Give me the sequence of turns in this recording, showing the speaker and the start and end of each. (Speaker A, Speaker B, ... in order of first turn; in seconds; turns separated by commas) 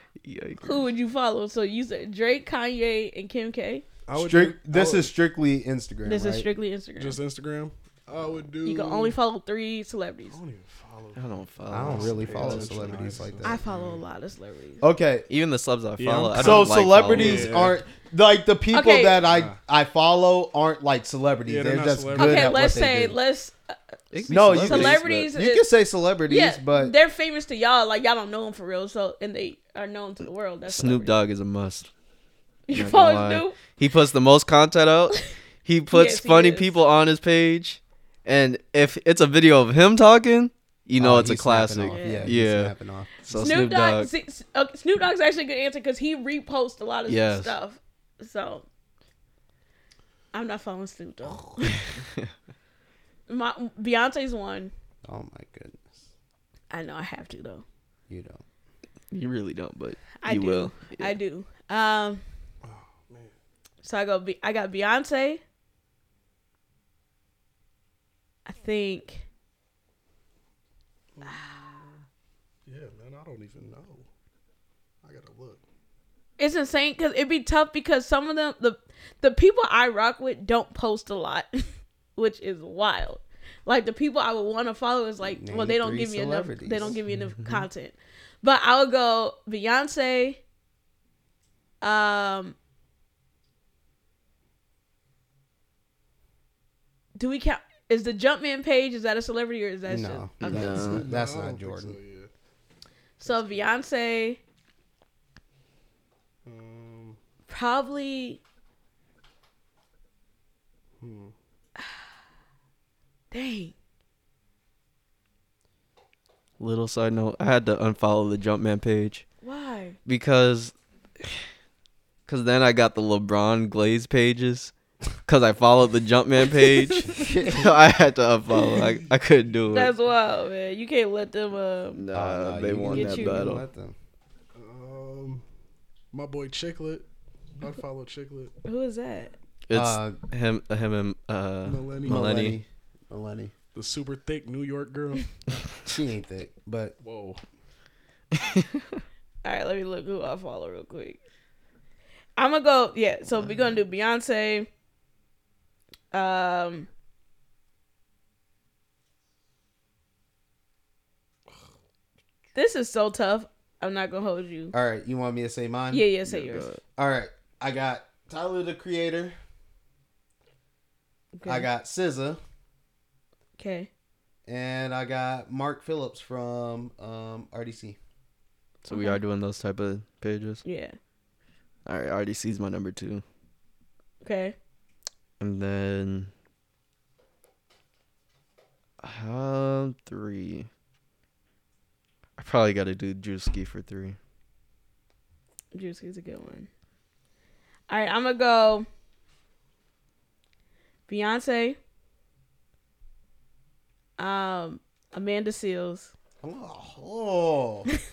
Speaker A: 0.2-0.8, Speaker B: 0.6-3.8, Speaker C: 4.1-5.1, Speaker D: 4.1-6.5, Speaker B: 6.0-7.2, Speaker C: 7.0-9.2, Speaker B: 8.6-10.4, Speaker C: 10.3-13.9, Speaker A: 11.1-13.1, Speaker D: 11.7-13.9, Speaker B: 13.4-14.8, Speaker D: 14.8-15.3, Speaker A: 15.3-17.7, Speaker C: 16.0-17.8, Speaker D: 16.3-23.2, Speaker B: 18.7-19.2, Speaker C: 19.3-19.6, Speaker C: 21.4-22.7, Speaker B: 22.1-23.8, Speaker A: 24.1-25.0, Speaker D: 24.3-26.9, Speaker B: 24.3-25.6, Speaker B: 26.3-31.2, Speaker A: 30.7-31.9, Speaker B: 32.7-33.6, Speaker A: 32.7-42.7, Speaker B: 35.9-36.7, Speaker D: 41.0-43.1, Speaker B: 41.9-42.3, Speaker A: 43.2-44.1, Speaker B: 43.3-48.6, Speaker A: 47.1-47.5, Speaker B: 50.3-51.8, Speaker B: 53.3-54.7, Speaker D: 55.0-56.0, Speaker B: 56.7-57.6, Speaker D: 58.1-58.4, Speaker A: 59.1-61.1, Speaker B: 60.2-62.2, Speaker C: 62.6-63.3, Speaker B: 63.8-65.4, Speaker B: 68.5-69.2, Speaker C: 71.2-72.0, Speaker B: 71.2-71.7, Speaker C: 72.7-74.1, Speaker C: 75.0-75.6, Speaker B: 76.4-90.4, Speaker D: 85.2-87.0, Speaker A: 87.1-87.7, Speaker B: 91.8-92.5, Speaker B: 97.2-100.3, Speaker D: 99.9-102.0, Speaker A: 100.4-101.0, Speaker C: 100.5-102.3, Speaker C: 103.2-103.7, Speaker B: 103.2-104.4, Speaker C: 106.4-107.2, Speaker B: 107.5-108.4, Speaker C: 111.0-111.3, Speaker B: 113.3-113.7, Speaker A: 116.6-119.2, Speaker B: 119.4-120.0, Speaker A: 120.0-120.7, Speaker A: 122.2-124.7, Speaker A: 125.2-129.9, Speaker D: 127.1-127.7, Speaker B: 129.7-132.0, Speaker A: 131.9-133.6, Speaker D: 132.1-133.9, Speaker B: 132.8-133.5, Speaker C: 134.5-135.4, Speaker C: 136.1-137.0, Speaker C: 137.6-138.5, Speaker B: 138.6-139.3, Speaker A: 139.7-142.6, Speaker D: 139.7-140.2, Speaker C: 141.6-142.3, Speaker D: 142.0-143.5, Speaker C: 143.7-145.3, Speaker D: 145.9-146.9, Speaker C: 147.0-147.4, Speaker A: 148.4-148.7, Speaker B: 149.4-151.2, Speaker B: 152.4-154.7, Speaker B: 156.1-156.9, Speaker B: 162.5-164.7, Speaker D: 164.7-166.1, Speaker B: 165.9-166.7, Speaker A: 166.2-166.8, Speaker D: 167.0-169.3, Speaker B: 171.3-171.7, Speaker D: 171.4-172.4, Speaker B: 173.6-173.9, Speaker D: 174.5-178.0, Speaker A: 178.8-180.6, Speaker B: 178.9-179.2, Speaker B: 180.6-180.9, Speaker A: 181.8-183.2, Speaker B: 184.2-184.6, Speaker A: 185.4-186.3, Speaker A: 189.0-190.7, Speaker A: 192.4-194.2, Speaker B: 195.7-196.7, Speaker B: 197.9-198.9, Speaker B: 201.1-201.8, Speaker B: 204.2-206.1, Speaker D: 206.4-207.9